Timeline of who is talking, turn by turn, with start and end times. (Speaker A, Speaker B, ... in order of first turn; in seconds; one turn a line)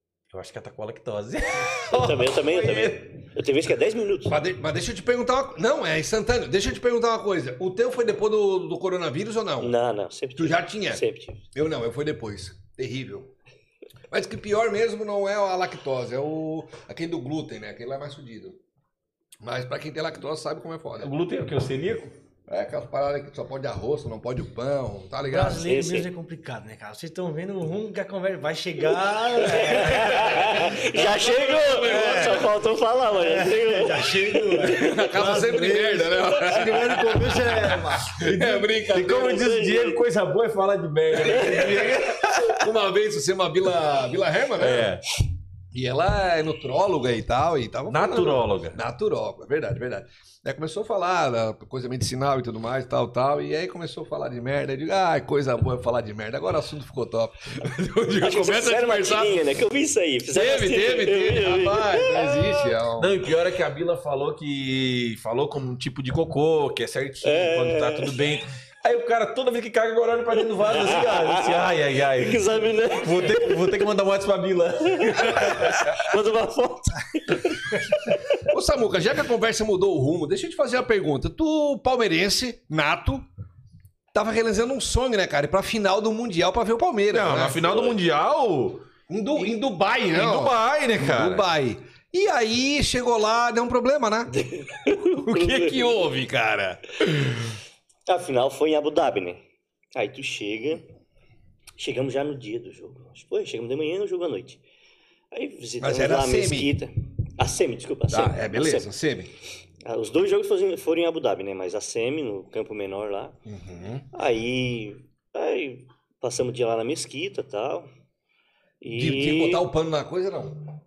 Speaker A: 0.3-3.0
Speaker B: 1.9-4.4
Speaker C: 4.3-9.7
Speaker B: 9.6-11.4
Speaker C: 10.4-11.0
Speaker C: 11.5-13.3
Speaker C: 14.1-18.6
Speaker C: 19.4-21.1
Speaker A: 21.0-22.1
Speaker C: 22.5-25.7
Speaker D: 25.2-30.7
Speaker B: 25.6-26.1
Speaker B: 29.3-35.0
Speaker A: 30.5-31.3
Speaker C: 31.2-32.5
Speaker A: 31.8-32.4
Speaker D: 31.9-32.3
Speaker D: 33.2-38.4
Speaker C: 34.6-39.4
Speaker A: 38.2-42.7
Speaker B: 38.9-40.0
Speaker B: 41.2-41.9
Speaker C: 41.3-44.9
Speaker A: 44.6-45.0
Speaker C: 45.7-59.5
Speaker A: 47.9-48.8
Speaker B: 58.2-62.7
Speaker C: 60.3-63.2
Speaker A: 63.0-76.0
Speaker B: 67.2-68.2
Speaker B: 70.6-73.9
Speaker B: 74.9-78.5
Speaker C: 78.5-83.2
Speaker C: 84.1-87.9
Speaker A: 87.1-88.9
Speaker C: 89.1-94.3
Speaker A: 90.1-91.5
Speaker B: 94.3-96.0
Speaker C: 94.8-97.3
Speaker B: 98.1-99.4
Speaker B: 100.0-100.8
Speaker B: 101.8-104.6
Speaker B: 105.3-108.9
Speaker C: 105.8-106.8
Speaker C: 108.1-109.3
Speaker B: 109.9-113.4
Speaker C: 113.5-114.1
Speaker B: 114.1-117.9
Speaker B: 118.8-119.7
Speaker C: 118.9-120.7